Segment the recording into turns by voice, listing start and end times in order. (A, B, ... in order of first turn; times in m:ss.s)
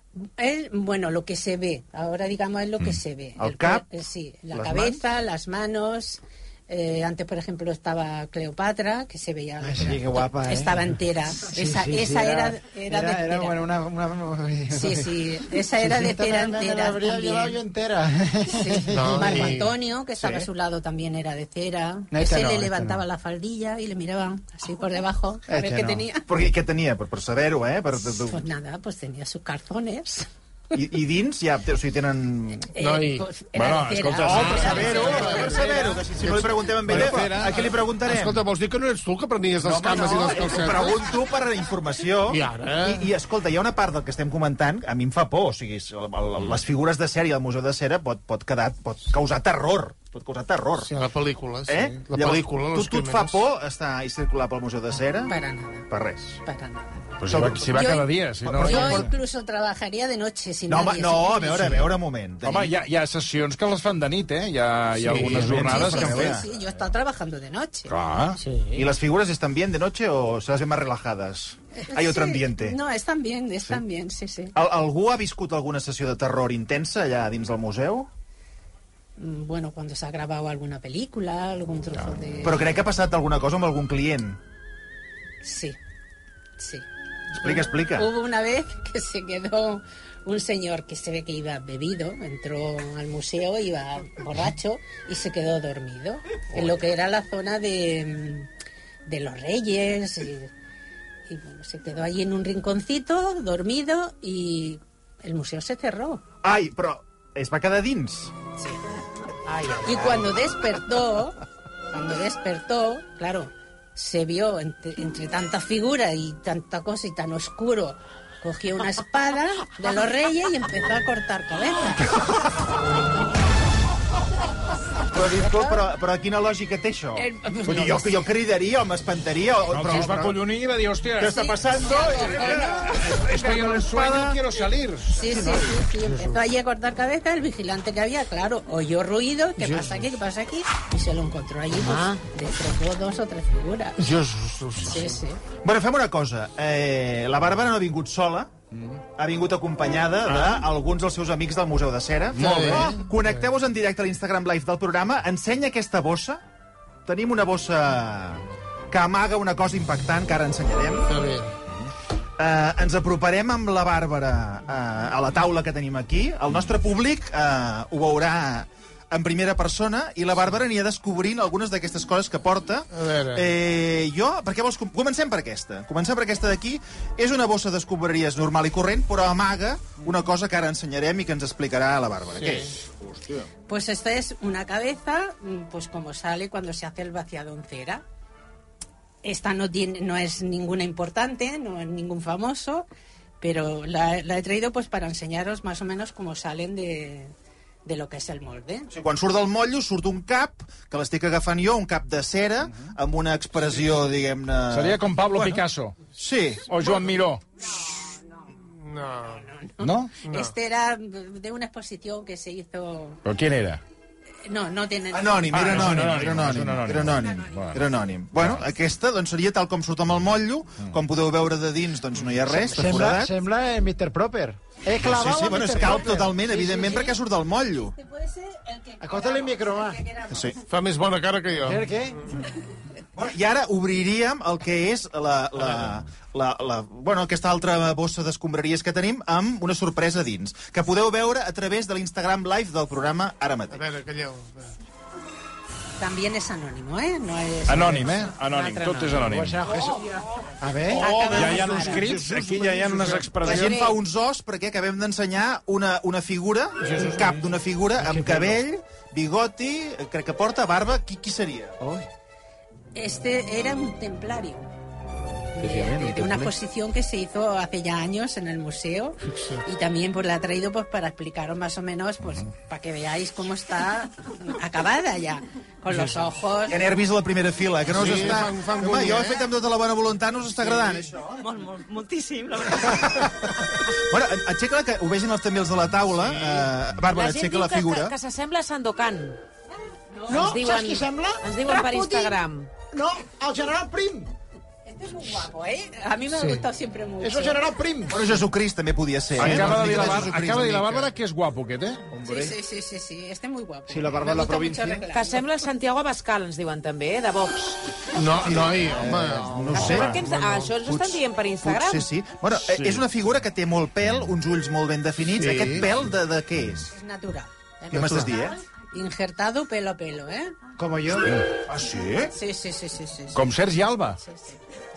0:00.4-0:13.6 A
0:03.4-0:03.8 B
0:04.5-0:05.0 B
0:09.6-0:19.6 C
0:14.7-0:17.6 A
0:18.5-0:26.3 A
0:18.9-0:19.7 D
0:20.2-0:20.4 B
0:22.1-0:23.0 C
0:25.5-0:26.1 C
0:26.3-0:28.5 B
0:27.9-0:30.3 A
0:30.7-0:32.7 B
0:32.7-0:35.9 A
0:32.8-0:33.2 D
0:33.5-0:35.1 E
0:34.2-0:38.4 B
0:34.4-0:41.0 D
0:36.8-0:37.6 E
0:39.6-0:50.9 B
0:42.3-0:43.1 D
0:50.8-0:53.4 D
0:51.6-0:55.3 B
0:55.3-0:55.9 A
0:55.9-0:56.4 B
0:56.4-0:57.0 A
0:57.2-0:59.1 E
0:57.2-0:57.7 B
0:57.6-1:01.9 A
0:58.4-0:59.1 B
1:00.7-1:02.7 B
1:02.4-1:06.4 E
1:05.0-1:05.8 D
1:05.1-1:06.4 B
1:05.4-1:07.9 A
1:07.9-1:08.4 E
1:08.7-1:12.8 B
1:11.8-1:14.5 A
1:14.5-1:18.1 B
1:19.2-1:22.8 A
1:22.4-1:24.4 B
1:25.4-1:25.8 A
1:26.6-1:26.8 A
1:27.4-1:28.1 B
1:27.4-1:38.5 A
1:39.1-1:40.5 A
1:41.3-1:46.2 A
1:46.4-1:48.3 B
1:49.7-1:51.4 A
1:51.9-2:02.2 A
2:05.1-2:10.4 B
2:05.4-2:05.8 A
2:07.2-2:08.2 A
2:09.7-2:15.3 E
2:11.2-2:14.4 B
2:11.2-2:13.1 A
2:15.1-2:24.1 A
2:15.3-2:16.4 D
2:19.6-2:20.1 D
2:21.8-2:22.2 F
2:24.0-2:25.2 D
2:24.8-2:25.4 A
2:25.6-2:28.5 B
2:29.2-2:36.4 B
2:32.3-2:33.1 D
2:37.0-2:41.2 B
2:41.0-2:41.5 D
2:42.4-3:03.5 B
2:52.9-2:53.5 D
3:02.3-3:02.7 D
3:03.7-3:08.0 A
3:09.2-3:12.9 A
3:13.4-3:17.3 A
3:17.8-3:18.9 A
3:18.9-3:25.6 B
3:24.7-3:26.0 E
3:26.1-3:26.9 B
3:26.6-3:27.4 E
3:27.6-3:28.5 A
3:28.8-3:29.4 D
3:29.0-3:33.2 A
3:29.8-3:30.1 E
3:30.2-3:30.5 D
3:33.2-3:33.8 E
3:34.4-3:35.9 A
3:35.1-3:43.3 B
3:35.5-3:37.8 E
3:42.7-3:46.9 C
3:45.0-3:47.9 B
3:45.9-3:47.2 A
3:47.9-3:50.6 A
3:49.0-3:50.0 C
3:50.3-3:50.6 B
3:50.6-3:51.9 D
3:51.6-3:52.2 C
3:53.2-4:03.8 B
4:03.7-4:04.8 D
4:06.0-4:08.3 A
4:07.6-4:09.6 E
4:08.5-4:09.1 F
4:09.1-4:12.0 C
4:10.9-4:13.8 D
4:11.0-4:12.0 A
4:11.3-4:13.9 E
4:13.4-4:21.8 B
4:13.6-4:13.9 F
4:16.8-4:17.4 D
4:18.0-4:18.5 C
4:21.8-4:22.0 C
4:22.9-4:24.7 A
4:25.6-4:36.8 A
4:25.6-4:26.5 C
4:29.3-4:29.6 D
4:36.7-4:41.4 B
4:37.9-4:39.5 D
4:40.6-4:41.1 D
4:41.4-4:43.2 A
4:42.8-4:48.1 B
4:46.2-4:46.7 D
4:47.1-4:49.4 F
4:50.1-4:50.6 A
4:50.3-4:52.4 C
4:50.3-4:52.7 F
4:52.9-4:54.3 C
4:54.9-4:57.6 A
4:57.2-4:58.4 C
4:58.1-5:01.1 B
4:59.4-5:02.1 E
5:02.2-5:05.4 A
5:02.2-5:02.5 C
5:03.9-5:05.0 C
5:05.1-5:07.8 F
5:08.1-5:10.7 D
5:08.4-5:10.2 B
5:09.7-5:12.1 F
5:10.8-5:16.9 B
5:12.6-5:13.0 E
5:15.3-5:15.9 D
5:16.9-5:20.6 A
5:17.9-5:18.6 B
5:17.9-5:18.3 D
5:20.8-5:21.4 C
5:21.3-5:22.3 E
5:22.3-5:23.4 A
5:23.3-5:24.2 E
5:24.2-5:24.6 A